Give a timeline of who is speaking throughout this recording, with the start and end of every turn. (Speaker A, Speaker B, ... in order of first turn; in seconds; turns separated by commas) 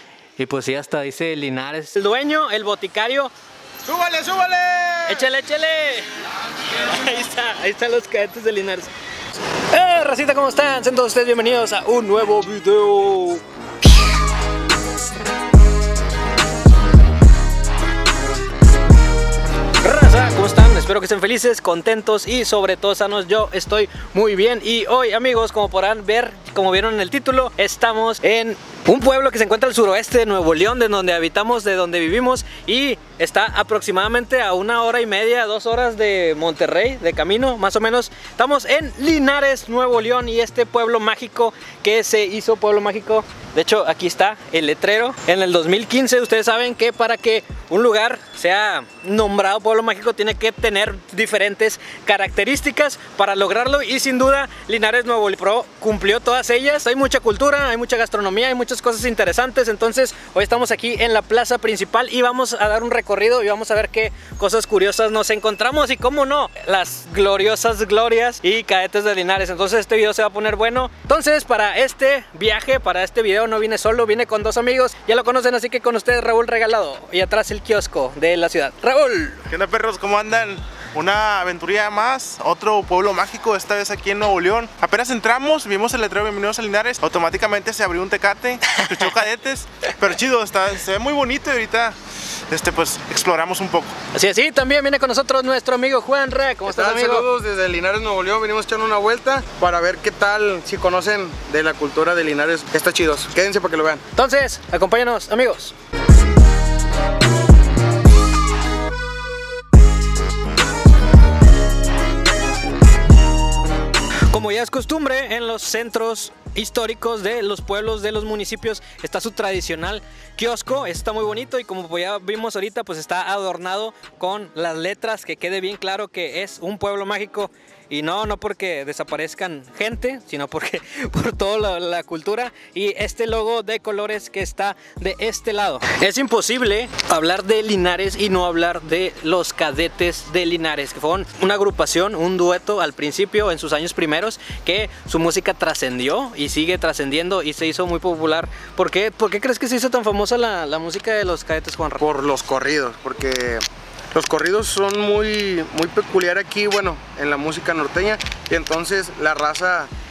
Speaker A: 0.4-3.3, Speaker B: 3.9-5.2, Speaker A: 5.1-6.1, Speaker A: 6.7-8.9, Speaker A: 9.7-13.4, Speaker A: 19.8-79.5, Speaker C: 79.5-92.0, Speaker C: 92.5-94.0, Speaker A: 94.1-97.3, Speaker B: 96.7-104.0, Speaker A: 104.2-105.8, Speaker A: 114.3-152.1, Speaker B: 152.0-159.9